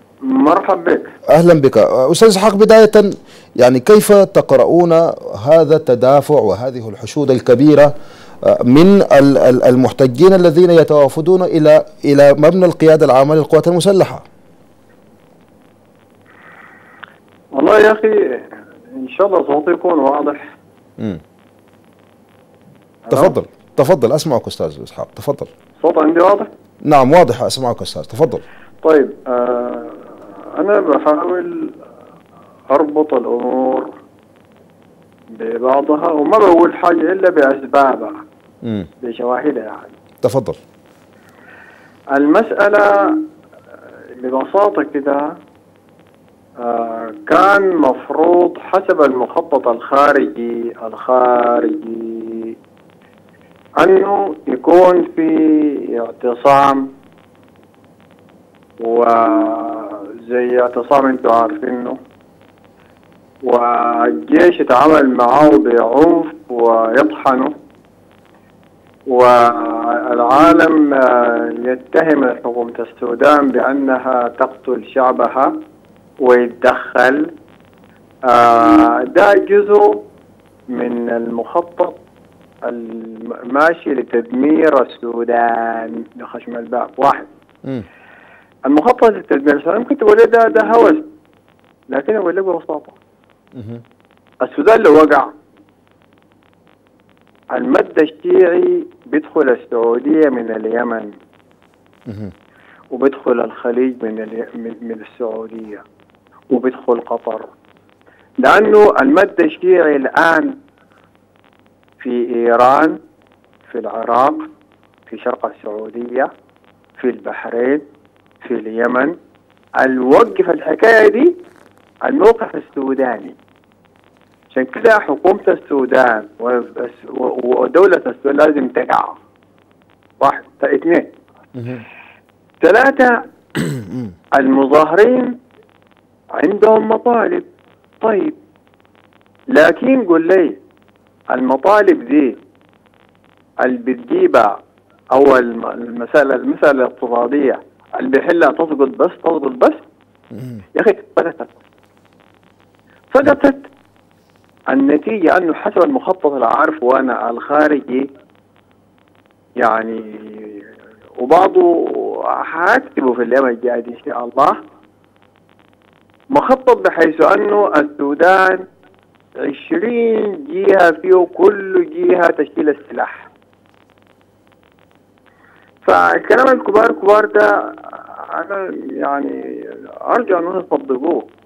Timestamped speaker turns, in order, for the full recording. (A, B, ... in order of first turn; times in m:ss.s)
0:00.2-0:01.1 A
0:01.3-0:07.9 B
0:08.4-0:14.2 B
0:17.6-0:20.6 A
0:23.0-0:23.4 A
0:23.1-0:25.5 B
0:25.8-0:26.5 A
0:26.8-0:28.4 B
0:28.8-0:31.8 A
0:32.7-0:34.0 A
0:35.3-0:38.2 A
0:39.0-0:39.9 A
0:40.2-0:40.6 B
0:42.1-0:43.2 A
0:44.2-0:45.4 A
0:46.6-0:52.6 A
0:53.8-0:56.9 A
0:58.8-1:02.0 A
1:03.4-1:07.5 A
1:09.1-1:15.6 A
1:16.2-1:17.3 A
1:18.3-1:20.0 A
1:20.7-1:22.0 A
1:22.6-1:27.3 A
1:28.7-1:31.1 A
1:31.9-1:33.0 A
1:33.6-1:33.8 B
1:34.4-1:35.3 A
1:37.5-1:41.1 A
1:42.1-1:42.3 B
1:42.9-1:45.8 A
1:46.5-1:47.5 A
1:48.4-1:50.6 A
1:52.0-1:53.0 A
1:53.7-1:54.4 A
1:55.1-1:56.3 A
1:57.0-1:57.8 A
1:58.4-1:59.1 A
1:59.8-2:01.3 A
2:02.0-2:03.4 A
2:04.5-2:09.2 A
2:10.2-2:11.1 A
2:11.6-2:11.8 B
2:12.6-2:13.2 A
2:14.4-2:15.3 A
2:16.4-2:17.5 A
2:18.0-2:18.4 A
2:19.5-2:20.6 A
2:21.3-2:22.4 A
2:23.6-2:24.6 A
2:25.1-2:29.8 A
2:30.8-2:31.5 A
2:33.1-2:33.7 A
2:34.7-2:38.1 A
2:39.6-2:44.6 A
2:46.3-2:48.6 A
2:49.4-2:53.3 A
2:55.8-3:01.3 A